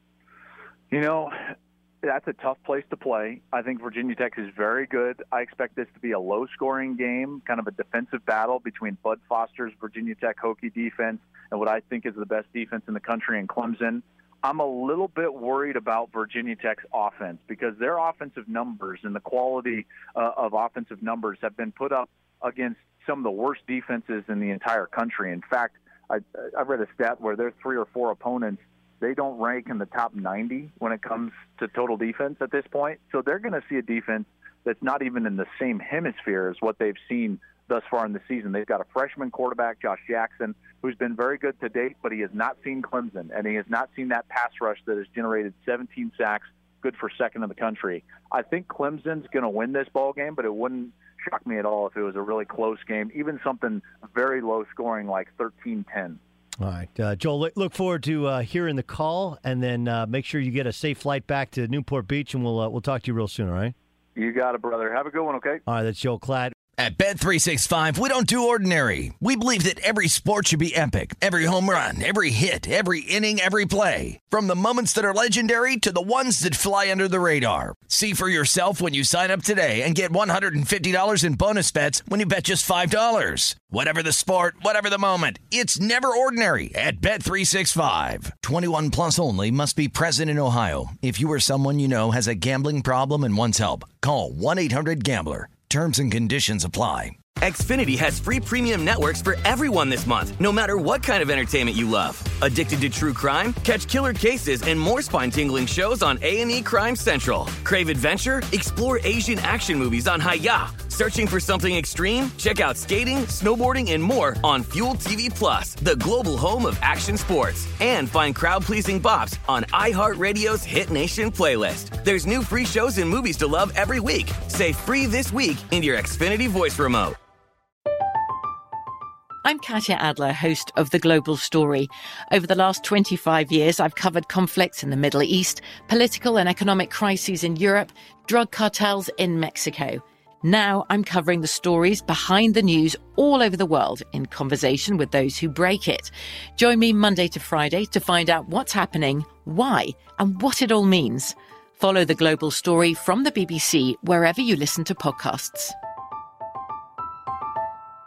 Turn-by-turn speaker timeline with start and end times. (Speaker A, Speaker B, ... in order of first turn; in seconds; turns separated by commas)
Speaker A: 0.9-56.2, Speaker B: 56.6-63.8, Speaker A: 64.2-65.6, Speaker B: 65.7-66.5, Speaker C: 66.8-97.2, Speaker D: 97.3-127.2, Speaker E: 129.4-155.8